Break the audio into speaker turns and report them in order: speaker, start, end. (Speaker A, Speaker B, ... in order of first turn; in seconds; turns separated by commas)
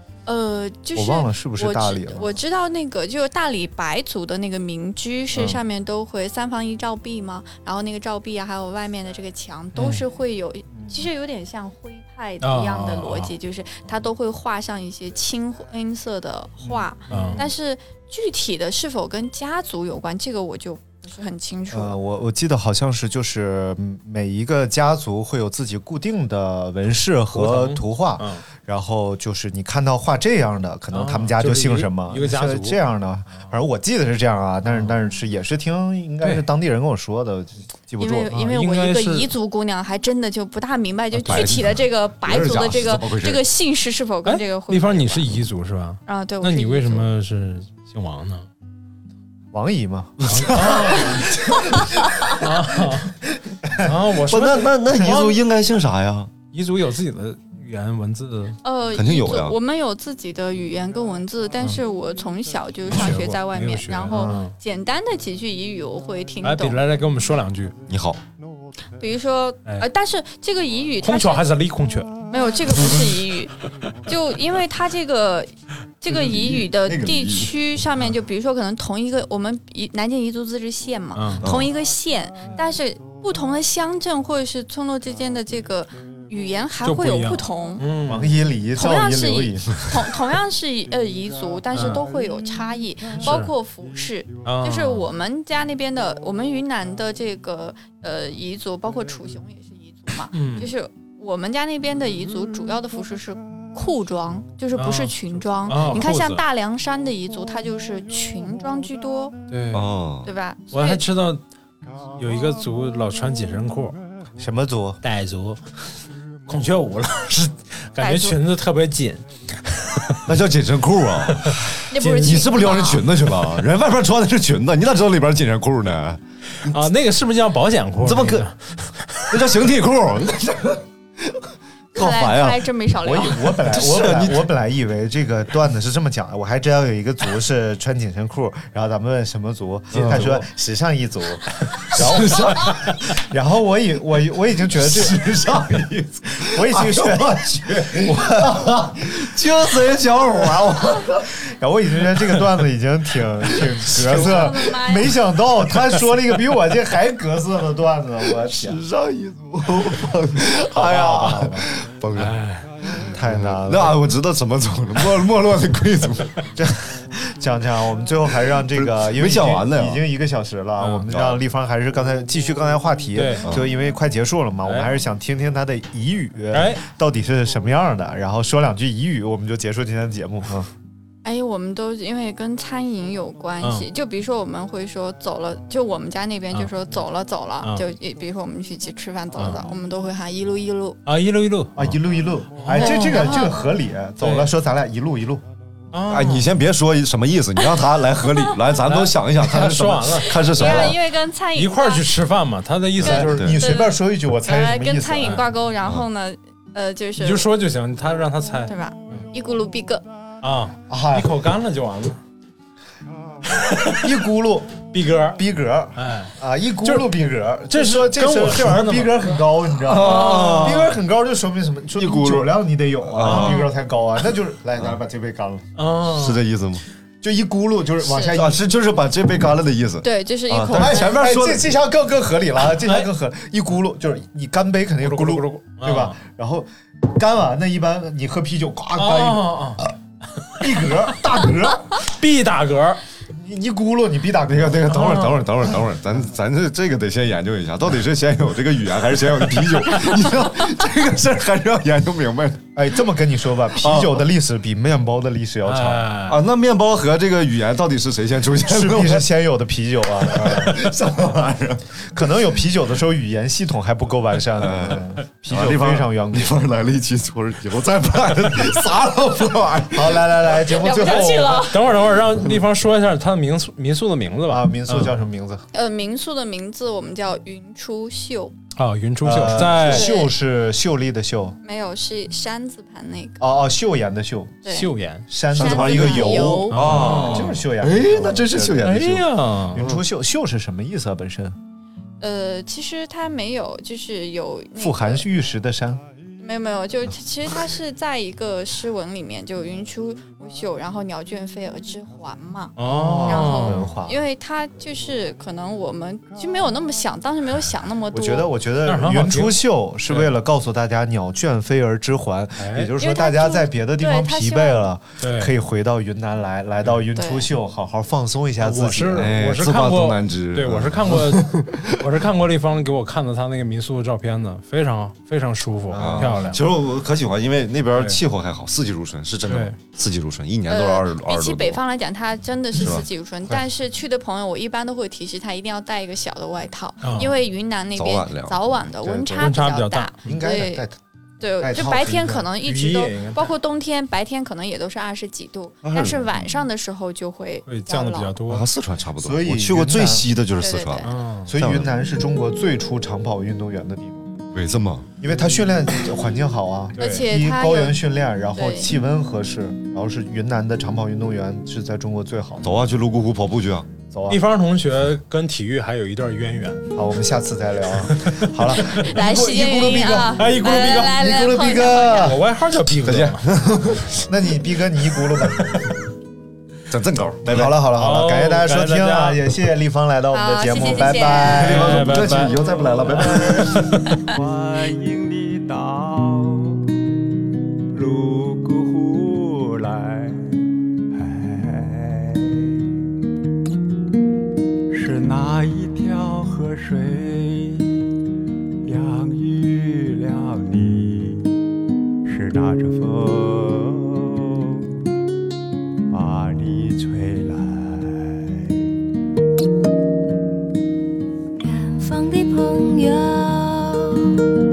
Speaker A: 0.3-22.0, Speaker B: 0.9-2.4, Speaker C: 9.8-10.0, Speaker B: 10.8-11.1, Speaker C: 12.4-13.3, Speaker B: 16.6-17.5, Speaker C: 17.1-17.4, Speaker B: 21.7-38.4, Speaker C: 27.3-28.4, Speaker C: 30.9-32.8, Speaker A: 38.0-45.3, Speaker C: 38.3-39.3, Speaker D: 41.1-43.4, Speaker C: 44.2-48.5, Speaker A: 46.1-47.1, Speaker B: 49.5-52.4, Speaker D: 50.2-50.7, Speaker C: 50.3-51.3, Speaker C: 52.3-53.2, Speaker B: 53.6-53.9, Speaker C: 53.8-54.8, Speaker D: 54.3-56.3, Speaker B: 55.0-55.4, Speaker C: 56.5-58.6, Speaker A: 58.6-66.8, Speaker D: 58.9-59.6, Speaker C: 62.9-64.6, Speaker B: 64.1-64.4, Speaker C: 66.4-67.8, Speaker D: 67.9-68.2, Speaker A: 69.0-71.5, Speaker C: 71.0-72.1, Speaker A: 72.3-73.5, Speaker A: 74.1-87.9, Speaker D: 76.1-77.5, Speaker C: 81.2-81.4, Speaker D: 81.4-81.7, Speaker C: 86.8-88.4, Speaker B: 88.1-89.9, Speaker A: 88.8-109.4, Speaker C: 91.7-92.0, Speaker C: 93.2-93.5, Speaker C: 94.4-95.0, Speaker C: 100.3-100.7, Speaker C: 104.8-106.4, Speaker C: 109.5-109.9, Speaker D: 109.7-110.3, Speaker A: 110.2-111.0, Speaker C: 110.7-111.4, Speaker C: 112.2-114.0, Speaker B: 114.4-115.0, Speaker C: 115.0-115.8, Speaker C: 116.5-120.2, Speaker A: 118.0-118.4, Speaker D: 120.3-121.6, Speaker C: 121.5-122.5, Speaker A: 121.9-123.0, Speaker D: 122.2-126.8, Speaker C: 126.7-129.1, Speaker D: 128.0-128.5, Speaker D: 129.3-131.4, Speaker D: 131.9-132.8, Speaker A: 131.9-133.5, Speaker B: 133.0-145.3, Speaker D: 133.6-134.5, Speaker D: 139.9-140.5, Speaker D: 141.9-143.0, Speaker D: 144.6-151.2, Speaker B: 146.4-149.6, Speaker B: 150.9-158.8, Speaker D: 154.0-154.5, Speaker A: 154.1-155.1, Speaker D: 158.5-162.3, Speaker B: 160.7-161.4, Speaker C: 160.7-162.7, Speaker D: 162.9-166.4, Speaker B: 163.1-164.0, Speaker B: 166.6-180.7, Speaker D: 168.6-170.0, Speaker C: 170.8-171.1, Speaker D: 171.1-171.4, Speaker C: 173.2-173.5, Speaker C: 174.6-174.9, Speaker C: 176.5-176.8, Speaker A: 181.2-191.0, Speaker C: 191.1-191.8, Speaker B: 191.8-195.4, Speaker C: 192.6-193.5, Speaker A: 192.8-193.6, Speaker C: 194.2-194.5, Speaker C: 195.9-196.5, Speaker D: 196.1-201.0, Speaker C: 198.8-201.0, Speaker A: 200.2-202.1, Speaker C: 201.6-203.6, Speaker D: 203.0-203.6, Speaker B: 203.0-205.4, Speaker A: 203.6-207.5, Speaker C: 207.2-209.3, Speaker A: 208.7-210.1, Speaker C: 210.4-212.2, Speaker B: 210.9-211.4, Speaker C: 213.5-214.1, Speaker B: 214.0-225.7, Speaker C: 214.9-215.4, Speaker C: 216.0-217.1, Speaker C: 217.7-219.4, Speaker D: 219.8-221.0, Speaker C: 220.0-220.9, Speaker D: 222.0-223.7, Speaker C: 223.2-223.7, Speaker C: 225.8-226.4, Speaker D: 226.1-226.8, Speaker B: 227.2-228.6, Speaker A: 228.0-228.4, Speaker D: 228.2-231.7, Speaker A: 230.0-231.2, Speaker B: 230.7-239.9, Speaker C: 232.8-233.1, Speaker C: 235.0-236.2, Speaker C: 239.0-239.9, Speaker B: 240.6-242.0, Speaker C: 242.0-243.0, Speaker B: 243.3-245.1, Speaker D: 244.5-252.6, Speaker C: 244.9-245.4, Speaker B: 252.8-256.1, Speaker D: 253.8-254.2, Speaker C: 255.7-256.4, Speaker D: 256.3-259.2, Speaker B: 258.6-260.9, Speaker D: 260.2-261.9, Speaker B: 262.0-266.6, Speaker D: 264.6-270.4, Speaker B: 269.9-271.7, Speaker A: 270.7-271.8, Speaker C: 270.9-275.1, Speaker B: 274.5-275.6, Speaker A: 275.7-278.5, Speaker C: 278.8-280.1, Speaker B: 279.2-281.6, Speaker A: 279.9-280.3, Speaker A: 281.6-283.5, Speaker B: 283.4-284.6, Speaker A: 284.6-284.9, Speaker C: 284.7-285.3, Speaker B: 285.3-291.6, Speaker A: 285.5-286.8, Speaker D: 285.5-289.2, Speaker C: 286.7-287.6, Speaker C: 288.8-289.8, Speaker D: 289.8-290.0, Speaker A: 292.2-295.3, Speaker B: 294.8-296.0, Speaker A: 296.4-308.5, Speaker C: 302.8-303.9, Speaker B: 302.9-304.2, Speaker B: 308.1-319.4, Speaker C: 308.9-310.3, Speaker C: 312.6-312.9, Speaker A: 313.0-314.9, Speaker C: 315.2-315.5, Speaker A: 317.1-317.5, Speaker C: 318.6-326.6, Speaker D: 319.2-321.9, Speaker B: 325.9-326.6, Speaker D: 326.0-331.8, Speaker C: 327.9-328.2, Speaker C: 329.5-329.8, Speaker A: 330.7-340.9, Speaker D: 332.7-333.1, Speaker C: 337.0-337.3, Speaker D: 337.9-338.8, Speaker B: 339.0-339.6, Speaker C: 339.4-340.2, Speaker B: 340.2-341.0, Speaker A: 341.4-348.3, Speaker B: 341.6-342.5, Speaker C: 342.6-343.5, Speaker D: 345.8-346.4, Speaker C: 347.7-348.7, Speaker D: 348.5-351.9, Speaker B: 349.2-350.3, Speaker A: 350.6-351.1, Speaker C: 351.1-351.5, Speaker B: 351.5-354.3, Speaker D: 354.5-355.1, Speaker B: 355.2-362.7, Speaker C: 357.0-357.2, Speaker A: 357.0-358.0, Speaker A: 358.5-358.9, Speaker D: 362.6-363.9, Speaker B: 364.1-364.4, Speaker C: 364.3-366.9, Speaker B: 366.9-372.4, Speaker C: 368.1-369.1, Speaker A: 368.9-372.3, Speaker C: 370.4-371.2, Speaker C: 372.2-373.5, Speaker D: 373.0-374.2, Speaker B: 374.3-375.9, Speaker D: 376.9-377.7, Speaker B: 377.5-382.1, Speaker C: 377.9-379.4, Speaker A: 380.3-381.6, Speaker D: 381.5-384.0, Speaker C: 381.5-384.3, Speaker E: 384.3-386.8, Speaker E: 387.9-390.5, Speaker E: 391.1-392.8, Speaker E: 394.9-398.0, Speaker E: 398.8-401.5, Speaker E: 402.2-404.8, Speaker E: 406.1-408.8, Speaker F: 411.6-414.4